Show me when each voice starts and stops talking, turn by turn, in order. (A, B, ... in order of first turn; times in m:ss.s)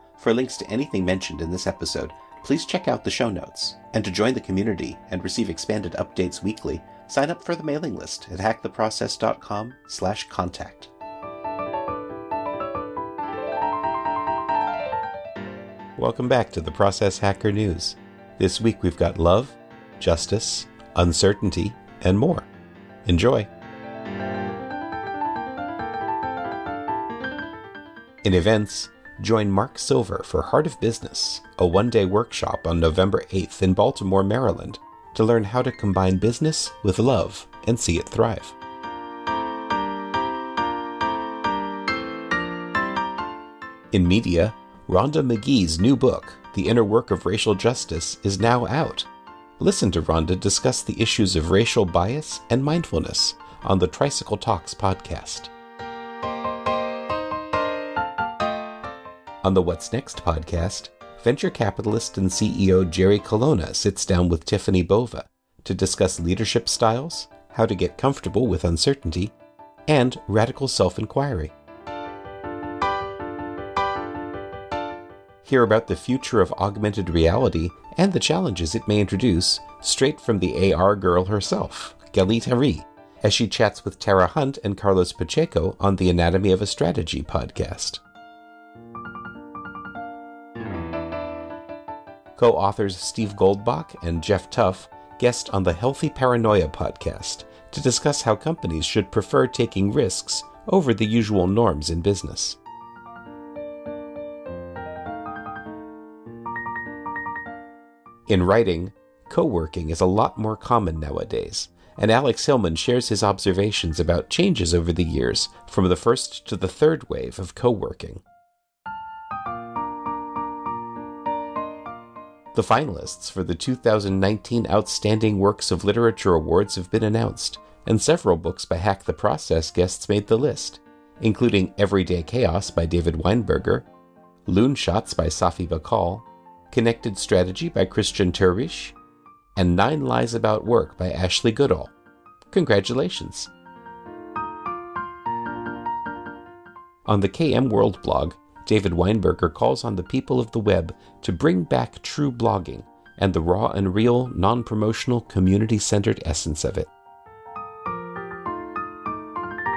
0:00.2-0:10.9 A
0:16.0-0:22.5 A
0:23.0-0:23.5 A
0:28.2-0:38.6 A
0:43.9-0:49.1 A
0:49.6-0:55.5 A
0:59.4-1:09.3 A
1:09.9-1:11.5 A
1:15.4-1:28.0 A
1:32.4-1:42.6 A
1:48.3-1:58.2 A
2:02.5-2:13.9 A
2:14.5-2:19.0 A
2:19.6-2:21.9 A
2:22.5-2:23.5 A
2:27.1-2:36.9 A